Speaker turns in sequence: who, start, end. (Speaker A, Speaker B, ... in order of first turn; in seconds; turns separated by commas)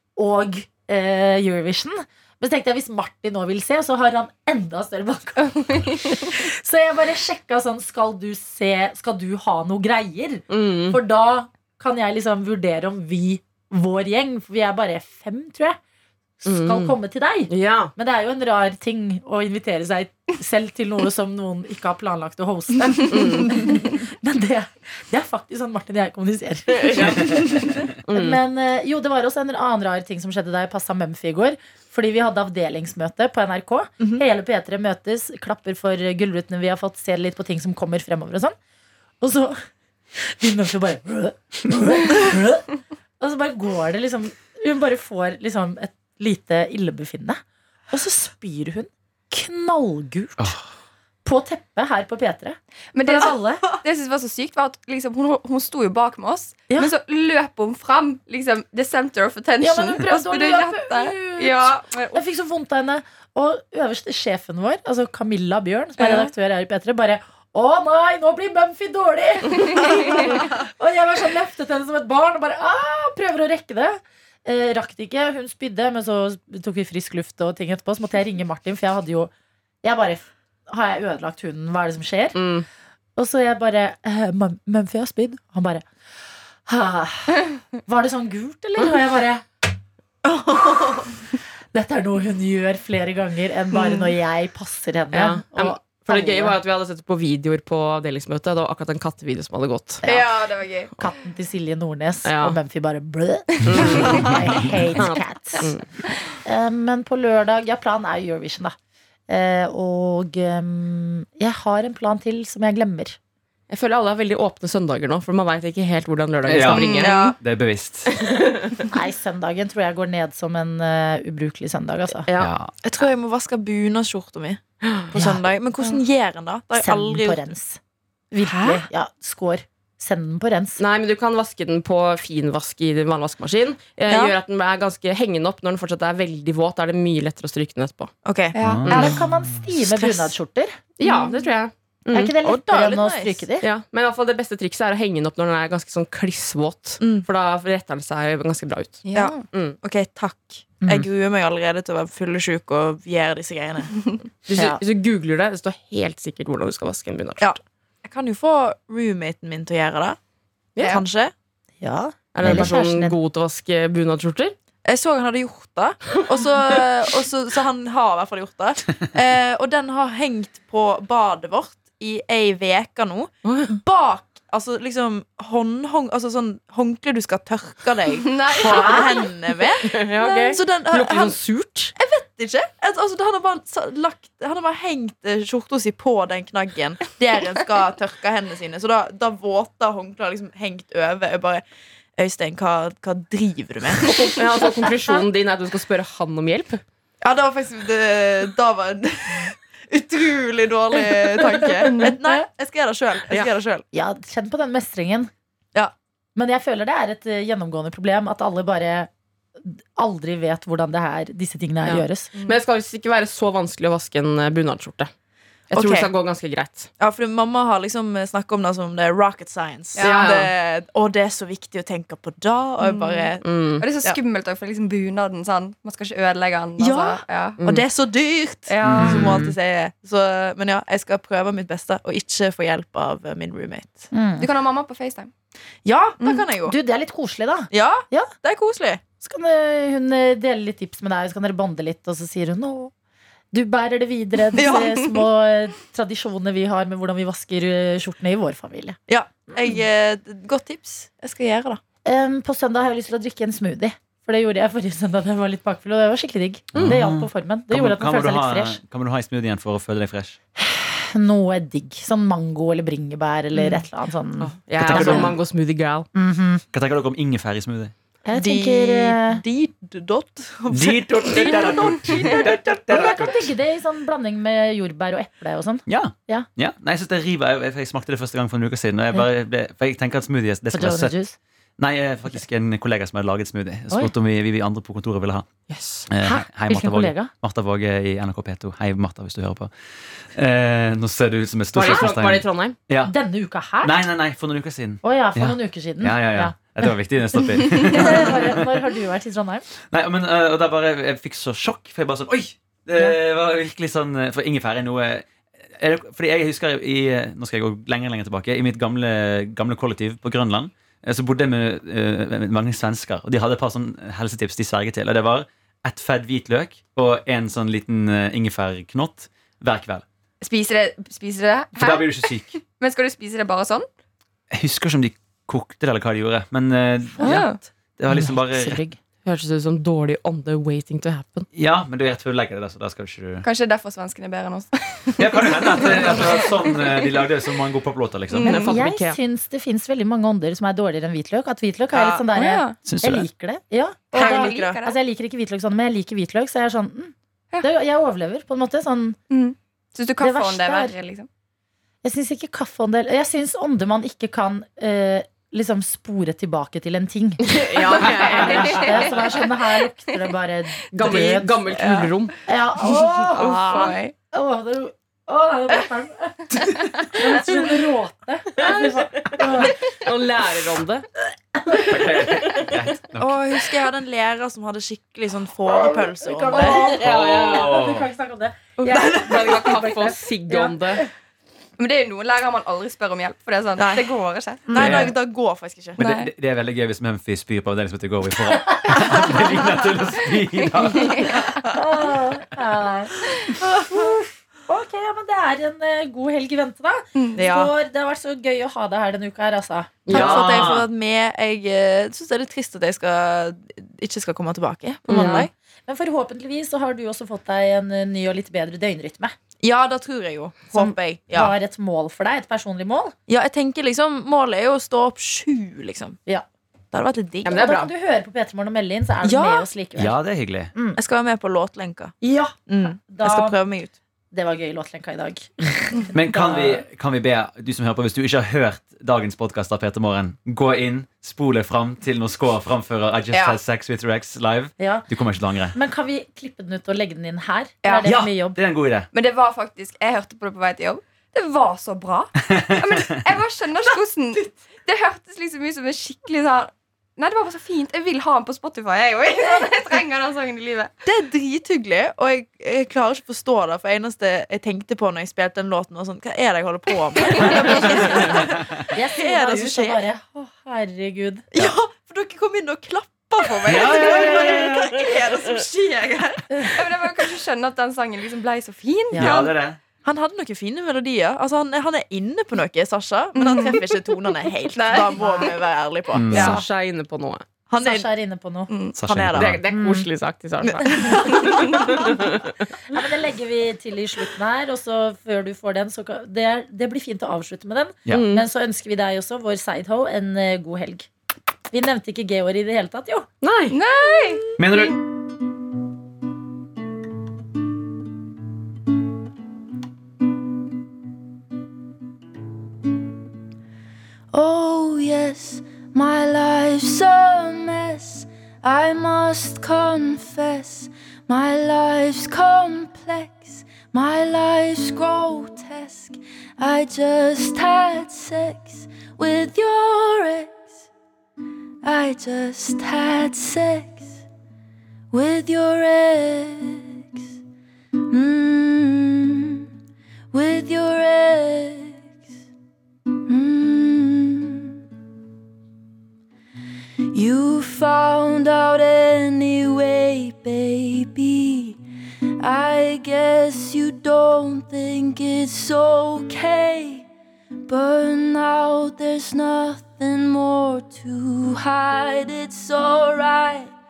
Speaker A: 0.2-15.8, Speaker B: 5.6-6.1, Speaker C: 10.5-11.0, Speaker A: 16.4-38.5, Speaker C: 16.4-17.0, Speaker C: 17.5-17.9, Speaker C: 23.1-23.6, Speaker C: 26.7-27.4, Speaker D: 27.0-27.4, Speaker C: 28.1-28.4, Speaker A: 39.2-39.6, Speaker A: 40.2-50.5, Speaker D: 50.4-50.6, Speaker A: 51.2-53.7, Speaker B: 52.9-62.2, Speaker A: 59.6-79.3, Speaker A: 79.8-82.4, Speaker C: 82.3-82.7, Speaker A: 83.2-85.9, Speaker A: 86.7-89.5, Speaker E: 90.2-91.1, Speaker A: 91.7-96.6, Speaker B: 93.8-94.1, Speaker C: 95.1-100.0, Speaker A: 100.0-100.3, Speaker B: 100.0-100.9, Speaker A: 101.0-105.8, Speaker C: 102.2-102.6, Speaker C: 103.7-104.4, Speaker C: 105.0-105.9, Speaker A: 106.4-108.8, Speaker A: 109.3-113.2, Speaker C: 113.7-117.3, Speaker D: 116.5-118.3, Speaker B: 116.7-117.2, Speaker E: 116.9-117.4, Speaker C: 118.1-118.9, Speaker A: 118.9-122.3, Speaker C: 122.3-122.5, Speaker D: 122.4-122.7, Speaker E: 122.8-127.5, Speaker C: 124.8-125.1, Speaker A: 125.1-125.4, Speaker A: 126.8-127.8, Speaker A: 128.3-130.8, Speaker E: 128.4-128.9, Speaker C: 130.8-138.1, Speaker E: 134.1-134.3, Speaker E: 138.2-139.2, Speaker B: 138.6-139.1, Speaker D: 138.6-139.2, Speaker C: 138.9-139.2, Speaker A: 138.9-140.8, Speaker E: 139.8-140.3, Speaker C: 141.0-142.4, Speaker E: 141.0-141.3, Speaker A: 142.1-143.7, Speaker E: 142.4-143.4, Speaker C: 143.6-149.8, Speaker E: 147.0-147.3, Speaker B: 149.1-149.4, Speaker E: 149.2-154.1, Speaker C: 154.5-157.6, Speaker A: 154.5-154.8, Speaker E: 157.4-160.2, Speaker C: 160.8-161.0, Speaker E: 160.8-161.3, Speaker A: 161.8-163.2, Speaker C: 162.3-164.6, Speaker D: 162.4-162.7, Speaker E: 164.8-181.4, Speaker C: 173.4-173.8, Speaker B: 178.2-179.3, Speaker A: 178.6-179.2, Speaker C: 179.8-181.9, Speaker E: 182.0-191.6, Speaker E: 192.2-194.3, Speaker C: 194.3-196.8, Speaker E: 197.2-203.8, Speaker A: 201.8-202.4, Speaker B: 201.9-202.1, Speaker A: 203.9-205.3, Speaker A: 206.3-209.1, Speaker A: 209.7-212.3, Speaker C: 211.8-215.1, Speaker E: 215.7-216.1, Speaker C: 215.7-216.9, Speaker E: 217.0-224.2, Speaker C: 220.0-220.5, Speaker B: 222.8-227.6, Speaker C: 223.4-223.8, Speaker E: 226.8-234.1, Speaker B: 228.7-229.3, Speaker D: 228.9-229.2, Speaker A: 229.0-229.5, Speaker A: 234.1-234.5, Speaker B: 234.4-235.3, Speaker E: 235.8-236.8, Speaker B: 236.2-236.5, Speaker A: 236.7-238.3, Speaker E: 237.7-239.1, Speaker A: 239.2-242.9, Speaker A: 243.5-249.0, Speaker E: 244.5-245.2, Speaker E: 249.1-251.8, Speaker A: 252.1-258.8, Speaker D: 256.7-260.4, Speaker A: 260.6-265.4, Speaker C: 264.4-266.1, Speaker D: 264.8-265.4, Speaker A: 266.1-266.6, Speaker D: 266.7-267.9, Speaker A: 268.2-269.4, Speaker E: 268.3-272.4, Speaker D: 270.7-273.5, Speaker A: 271.4-276.5, Speaker D: 275.9-281.2, Speaker A: 280.7-281.4, Speaker D: 281.8-285.5, Speaker C: 285.7-286.1, Speaker D: 286.1-293.1, Speaker A: 286.2-287.3, Speaker C: 291.7-292.8, Speaker A: 293.0-293.9, Speaker D: 293.8-298.8, Speaker A: 295.0-296.6, Speaker A: 297.7-299.7, Speaker D: 299.9-320.1, Speaker B: 320.4-323.9, Speaker D: 321.7-322.5, Speaker D: 324.5-328.8, Speaker B: 327.2-327.6, Speaker A: 328.1-329.0, Speaker C: 329.2-331.5, Speaker D: 331.5-333.5, Speaker B: 333.4-337.0, Speaker D: 335.2-338.7, Speaker B: 338.3-338.7, Speaker C: 338.4-339.2, Speaker A: 338.7-349.2, Speaker E: 341.9-342.2, Speaker B: 342.3-342.8, Speaker D: 342.8-343.3, Speaker E: 344.1-344.8, Speaker B: 344.1-345.0, Speaker B: 349.3-351.3, Speaker A: 350.2-350.9, Speaker A: 352.0-361.6, Speaker C: 357.4-359.2, Speaker B: 358.4-359.1, Speaker C: 360.9-362.4, Speaker B: 361.8-362.1, Speaker A: 362.5-369.8, Speaker B: 363.3-364.1, Speaker C: 363.4-363.9, Speaker C: 368.6-371.1, Speaker A: 371.5-372.6, Speaker D: 371.8-373.4, Speaker E: 373.2-376.8, Speaker A: 375.7-381.1, Speaker C: 376.5-377.9, Speaker D: 376.8-378.1, Speaker C: 378.8-381.0, Speaker B: 381.8-384.7, Speaker E: 383.8-384.1, Speaker A: 384.7-385.1, Speaker E: 384.7-386.1, Speaker D: 384.8-385.1, Speaker B: 386.0-386.3, Speaker D: 386.0-391.4, Speaker B: 390.8-391.4, Speaker A: 391.7-400.4, Speaker B: 397.1-397.4, Speaker E: 397.4-397.7, Speaker C: 400.1-400.4, Speaker E: 400.1-405.5, Speaker D: 400.1-400.9, Speaker C: 405.1-405.5, Speaker A: 405.1-409.4, Speaker E: 409.6-411.6, Speaker A: 410.7-413.1, Speaker E: 413.3-416.2, Speaker E: 416.9-417.7, Speaker C: 417.4-417.9, Speaker A: 417.5-420.2, Speaker E: 419.2-419.7, Speaker D: 420.0-420.7, Speaker A: 420.7-421.0, Speaker E: 421.0-422.1, Speaker A: 422.2-423.6, Speaker E: 422.7-424.0, Speaker A: 424.3-426.8, Speaker D: 426.1-435.8, Speaker A: 434.8-435.1, Speaker A: 435.7-438.6, Speaker B: 437.8-438.1, Speaker D: 438.0-439.1, Speaker B: 439.1-450.9, Speaker D: 442.5-442.9, Speaker E: 451.1-460.1, Speaker B: 457.4-457.9, Speaker D: 457.5-458.4, Speaker A: 458.0-461.5, Speaker E: 461.5-466.4, Speaker D: 463.6-465.1, Speaker B: 463.7-465.6, Speaker B: 466.7-469.5, Speaker A: 469.1-469.5, Speaker D: 469.2-469.8, Speaker E: 470.0-476.6, Speaker B: 473.4-474.2, Speaker C: 474.8-475.1, Speaker A: 475.2-475.5, Speaker D: 476.1-476.6, Speaker C: 476.3-477.5, Speaker A: 476.3-476.6, Speaker E: 477.7-478.1, Speaker A: 477.8-478.7, Speaker E: 478.7-479.6, Speaker D: 479.0-479.6, Speaker C: 479.4-482.6, Speaker A: 479.7-480.1, Speaker E: 480.6-482.0, Speaker A: 482.9-491.1, Speaker C: 488.1-488.5, Speaker A: 491.7-493.3, Speaker C: 493.4-493.8, Speaker B: 493.7-494.9, Speaker D: 494.6-495.0, Speaker F: 504.3-520.7, Speaker F: 521.8-524.2, Speaker F: 525.1-527.2, Speaker F: 528.1-529.6, Speaker F: 530.3-532.1, Speaker F: 533.3-534.8, Speaker F: 537.1-541.8, Speaker F: 542.4-547.1, Speaker F: 547.7-553.7